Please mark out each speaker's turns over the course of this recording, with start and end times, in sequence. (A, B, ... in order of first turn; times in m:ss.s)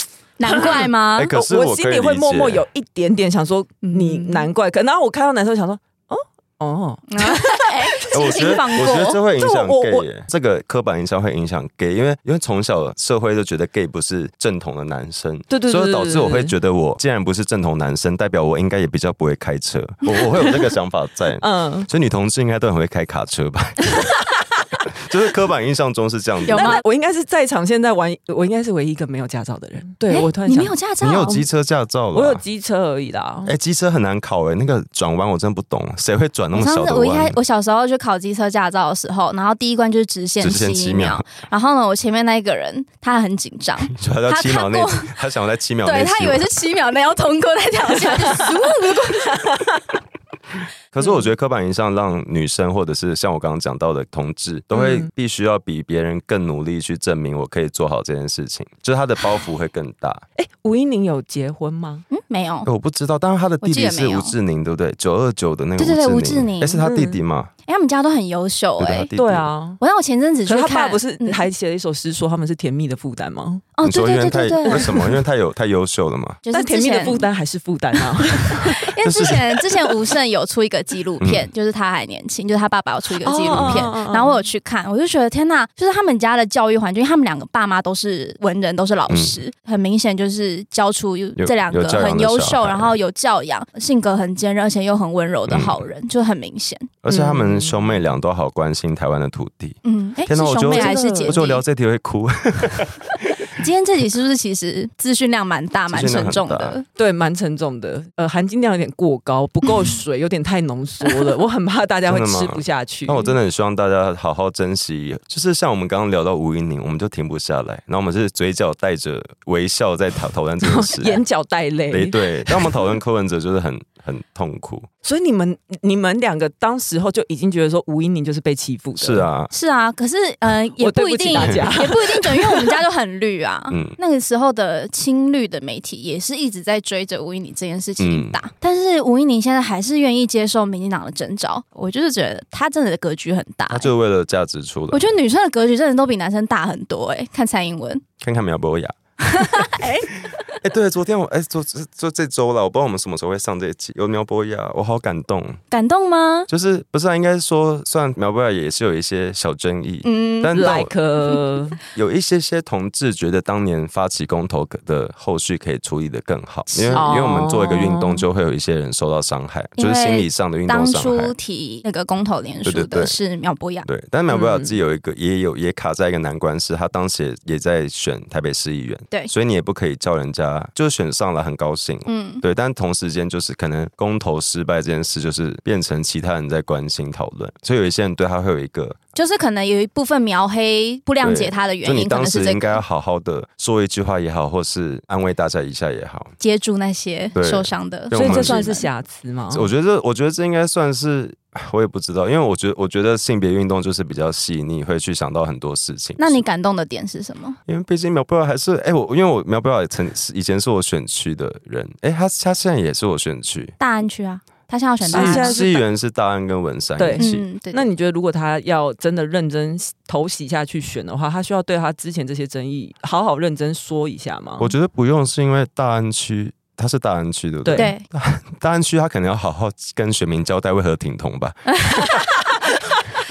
0:00.4-0:01.3 A
0:00.5-0:10.0 B
0:00.6-0:02.6 C
0:03.8-0:04.5 A
0:07.1-0:09.2 A
0:08.1-0:24.1 C
0:15.5-0:16.5 B
0:21.4-0:21.9 B
0:24.9-0:26.8 C
0:26.5-0:26.8 A
0:26.5-0:30.7 B
0:30.1-0:31.4 A
0:31.0-0:32.4 C
0:32.1-0:33.5 B
0:33.4-0:37.4 C
0:36.5-0:45.1 A
0:40.4-0:41.2 C
0:43.9-0:46.4 C
0:45.8-0:49.6 A
0:50.9-1:00.2 C
0:54.7-0:55.1 B
1:00.4-1:02.0 B
1:02.1-1:02.7 A
1:02.6-1:07.5 C
1:03.6-1:04.3 A
1:05.8-1:06.8 A
1:06.8-1:07.2 B
1:07.6-1:09.1 A
1:08.8-1:09.5 C
1:09.2-1:09.8 B
1:09.8-1:11.4 A
1:10.5-1:13.6 B
1:13.8-1:15.0 A
1:13.8-1:16.4 C
1:14.7-1:15.0 B
1:16.4-1:17.3 A
1:16.5-1:18.8 B
1:18.3-1:36.9 A
1:19.0-1:19.6 C
1:21.2-1:21.5 C
1:23.2-1:24.4 B
1:23.5-1:23.9 C
1:29.1-1:29.4 C
1:31.4-1:32.9 C
1:35.5-1:35.8 C
1:37.0-1:43.5 C
1:37.1-1:37.9 B
1:39.8-1:41.6 A
1:40.7-1:41.4 B
1:43.6-1:46.8 A
1:45.9-1:46.8 C
1:47.0-1:53.3 B
1:52.0-2:01.2 C
2:00.6-2:02.9 B
2:01.9-2:04.9 C
2:05.0-2:09.3 B
2:09.0-2:09.5 C
2:09.5-2:23.9 A
2:10.8-2:12.8 B
2:11.4-2:11.7 C
2:13.7-2:14.0 C
2:18.0-2:18.4 C
2:23.7-2:25.1 C
2:24.9-2:28.0 A
2:28.2-2:29.7 C
2:29.2-2:30.1 A
2:30.6-2:35.6 C
2:35.7-2:36.5 A
2:36.5-2:40.9 C
2:40.0-2:41.4 A
2:40.5-2:41.8 B
2:41.9-2:51.3 C
2:46.7-2:47.1 A
2:46.9-2:48.2 B
2:49.8-2:53.9 A
2:52.6-2:53.1 C
2:53.8-3:09.0 C
2:54.3-2:54.7 B
3:02.1-3:02.4 A
3:09.1-3:12.8 A
3:11.2-3:16.3 C
3:16.4-3:18.9 A
3:17.3-3:18.6 C
3:18.1-3:19.7 B
3:19.5-3:26.4 C
3:26.2-3:27.6 A
3:27.7-3:33.7 C
3:33.8-3:35.8 A
3:35.1-3:35.7 B
3:35.1-3:37.4 C
3:37.0-3:44.7 B
3:37.2-3:37.9 A
3:44.6-3:52.3 C
3:47.6-3:47.9 B
3:47.7-3:48.0 A
3:51.7-3:52.5 A